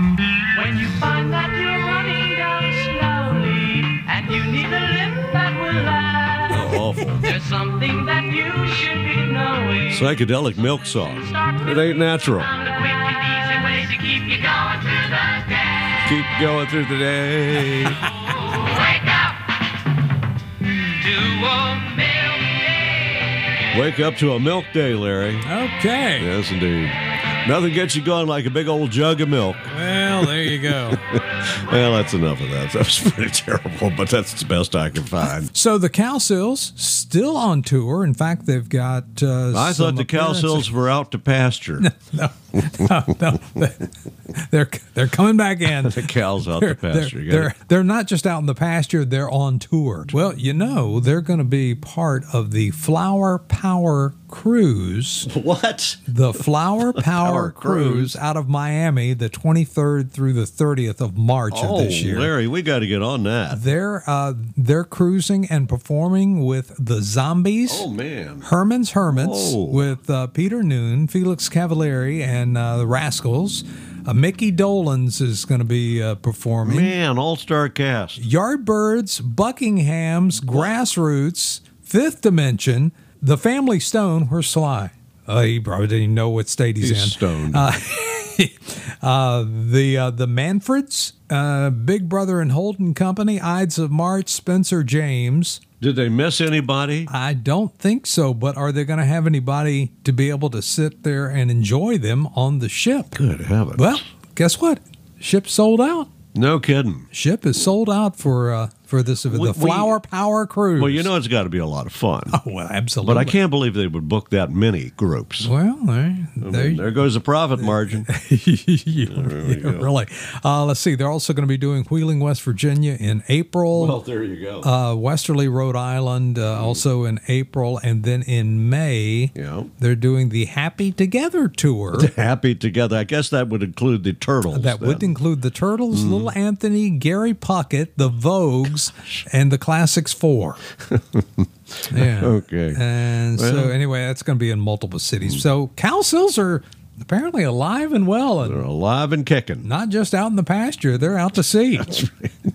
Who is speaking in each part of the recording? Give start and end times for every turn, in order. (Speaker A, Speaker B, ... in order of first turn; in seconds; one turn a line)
Speaker A: 0.5-6.6
Speaker B: 6.5-7.3
Speaker A: 7.2-10.0
Speaker B: 9.9-12.5
Speaker A: 11.2-11.8
Speaker A: 12.5-15.9
Speaker B: 16.0-18.1
Speaker A: 18.3-19.4
Speaker A: 21.0-23.6
Speaker B: 23.7-25.5
Speaker C: 25.4-26.3
Speaker B: 26.2-35.5
Speaker C: 29.7-31.0
Speaker C: 35.4-40.7
Speaker B: 39.5-41.9
Speaker C: 41.8-55.3
Speaker B: 45.7-47.5
Speaker B: 55.2-56.1
Speaker C: 56.1-62.3
Speaker B: 56.9-58.1
Speaker B: 61.5-63.6
Speaker C: 63.5-67.8
Speaker B: 67.7-68.5
Speaker C: 68.4-76.9
Speaker B: 69.1-69.9
Speaker B: 76.6-78.2
Speaker C: 78.2-95.6
Speaker B: 86.8-87.7
Speaker B: 95.8-97.1
Speaker C: 97.1-103.1
Speaker B: 103.1-104.0
Speaker C: 103.8-106.1
Speaker B: 106.3-107.1
Speaker C: 107.1-111.1
Speaker B: 109.3-109.9
Speaker B: 110.8-112.4
Speaker C: 112.3-113.4
Speaker B: 113.0-115.5
Speaker C: 115.4-116.8
Speaker B: 116.4-118.1
Speaker C: 118.0-124.0
Speaker B: 119.0-119.9
Speaker B: 123.7-124.7
Speaker C: 124.6-132.1
Speaker B: 129.3-129.7
Speaker B: 131.9-135.1
Speaker C: 134.5-140.6
Speaker B: 135.9-136.3
Speaker B: 140.9-143.7
Speaker C: 141.9-148.7
Speaker B: 148.4-149.7
Speaker C: 149.6-152.1
Speaker B: 151.9-152.3